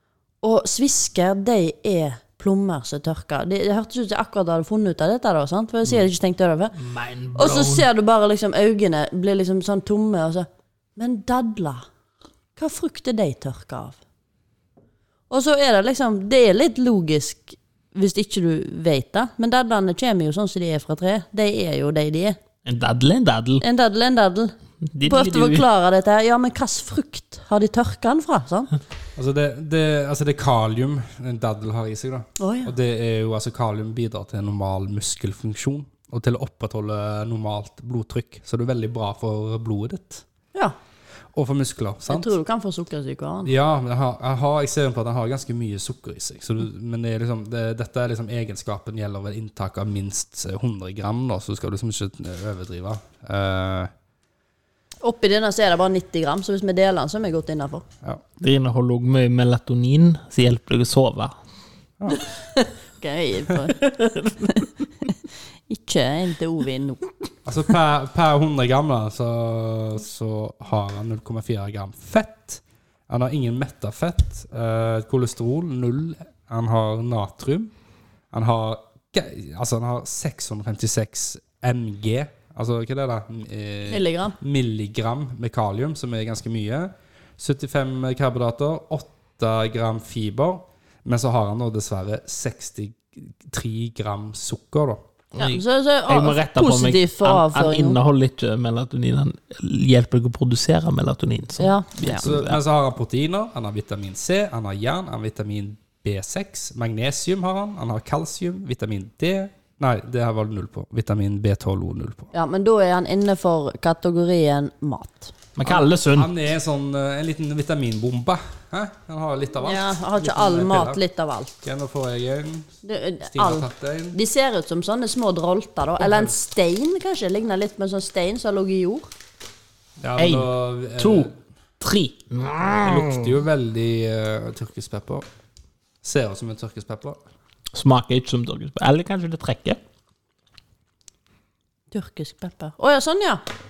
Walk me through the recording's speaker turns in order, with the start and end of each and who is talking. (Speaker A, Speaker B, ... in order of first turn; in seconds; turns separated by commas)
Speaker A: 0.4-6.8, Speaker B: 6.8-7.9, Speaker A: 7.3-11.9, Speaker A: 12.6-14.0, Speaker A: 15.3-22.4, Speaker B: 22.6-23.6, Speaker A: 23.6-28.7, Speaker B: 24.9-25.7, Speaker C: 29.2-40.2, Speaker A: 32.4-32.7, Speaker C: 41.3-42.3, Speaker A: 42.1-43.5, Speaker C: 43.5-53.9, Speaker A: 55.0-57.8, Speaker B: 58.4-61.4, Speaker A: 62.1-63.8, Speaker B: 63.8-64.7, Speaker A: 64.4-65.2, Speaker A: 65.7-67.1, Speaker C: 67.5-77.7, Speaker C: 78.3-95.0, Speaker A: 83.9-84.4, Speaker B: 95.3-102.6, Speaker A: 95.4-98.0, Speaker A: 101.6-102.3, Speaker C: 102.2-112.3, Speaker A: 112.3-115.3, Speaker B: 115.6-116.3, Speaker C: 115.7-121.0, Speaker A: 119.6-121.5, Speaker C: 121.6-124.2, Speaker A: 122.8-129.1, Speaker C: 126.0-126.3, Speaker C: 130.0-131.3, Speaker B: 130.2-131.3, Speaker B: 131.8-133.3, Speaker C: 132.7-135.2, Speaker C: 136.0-137.2, Speaker B: 137.7-139.8, Speaker A: 141.9-143.4